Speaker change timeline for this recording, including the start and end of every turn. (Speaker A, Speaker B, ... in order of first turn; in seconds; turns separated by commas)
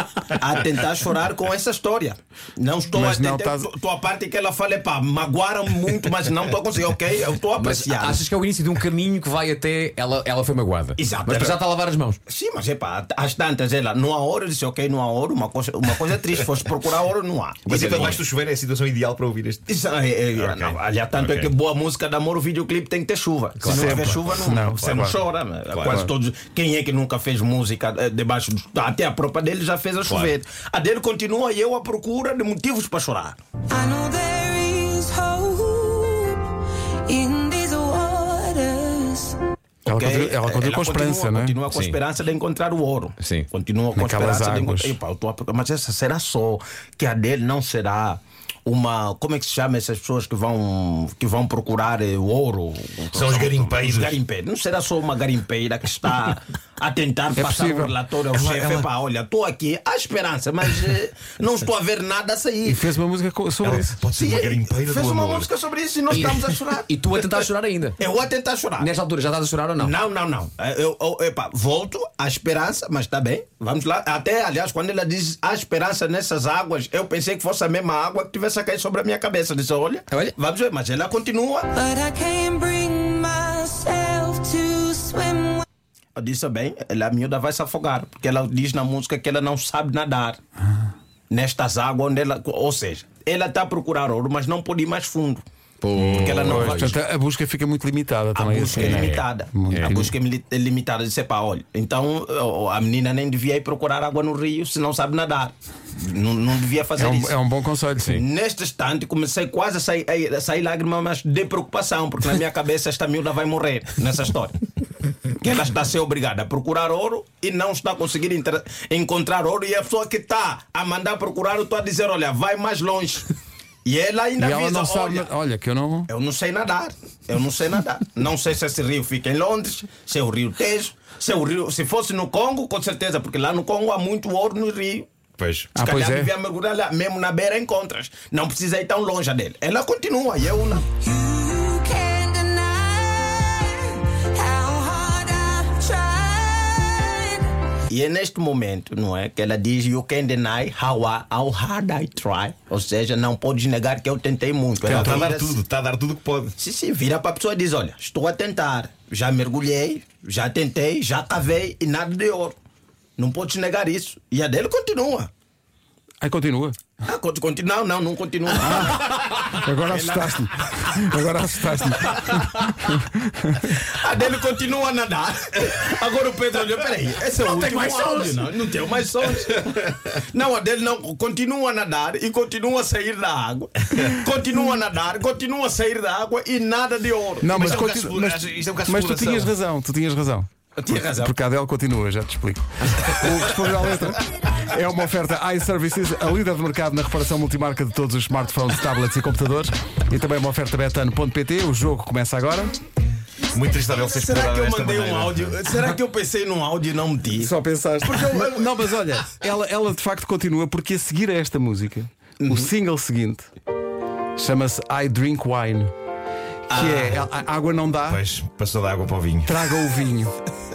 Speaker A: 0.2-8.2, Speaker B: 2.9-3.7, Speaker C: 7.5-12.2, Speaker A: 11.0-11.6, Speaker A: 12.2-18.2, Speaker C: 17.6-18.1, Speaker D: 17.7-19.6, Speaker A: 19.7-33.4, Speaker D: 20.3-21.6, Speaker B: 23.6-25.2, Speaker D: 23.9-25.1, Speaker D: 25.7-26.1, Speaker D: 30.1-30.3, Speaker E: 33.7-36.5, Speaker E: 37.1-39.4, Speaker A: 39.8-62.8, Speaker B: 39.9-41.6, Speaker C: 41.7-42.0, Speaker C: 43.2-43.5, Speaker B: 43.9-45.0, Speaker D: 53.1-54.2, Speaker B: 57.4-57.9, Speaker D: 58.3-58.9, Speaker B: 62.6-63.9, Speaker D: 63.6-65.5, Speaker A: 64.1-67.4, Speaker C: 66.1-68.0, Speaker A: 68.0-68.9, Speaker C: 68.8-69.9, Speaker A: 69.8-81.7, Speaker E: 81.7-85.6, Speaker A: 86.2-90.4, Speaker A: 91.3-95.4, Speaker C: 95.8-96.9, Speaker A: 96.0-97.0, Speaker B: 96.4-100.1, Speaker A: 98.3-107.4, Speaker C: 99.7-100.0, Speaker B: 107.0-108.2, Speaker A: 108.0-114.6, Speaker A: 115.3-123.3, Speaker A: 123.8-125.3, Speaker B: 124.4-126.1, Speaker A: 126.1-135.1, Speaker D: 135.4-135.7, Speaker B: 135.7-136.3, Speaker A: 135.8-140.9, Speaker E: 140.9-147.5, Speaker A: 147.9-155.6, Speaker B: 154.8-155.3, Speaker D: 154.8-156.5, Speaker A: 156.6-162.6, Speaker A: 163.2-165.3, Speaker B: 166.2-166.8, Speaker A: 167.0-169.2, Speaker B: 168.6-169.0, Speaker B: 169.5-172.7, Speaker A: 169.9-170.9, Speaker A: 172.0-172.4, Speaker A: 173.6-187.8, Speaker B: 187.4-202.7, Speaker D: 187.5-189.5, Speaker A: 190.8-191.3, Speaker D: 203.5-205.6, Speaker A: 203.9-207.5, Speaker B: 207.4-213.5, Speaker A: 208.0-208.7, Speaker A: 212.4-212.7, Speaker B: 214.3-215.9, Speaker A: 216.7-217.3, Speaker B: 216.7-218.2, Speaker D: 218.1-219.5, Speaker B: 219.4-220.3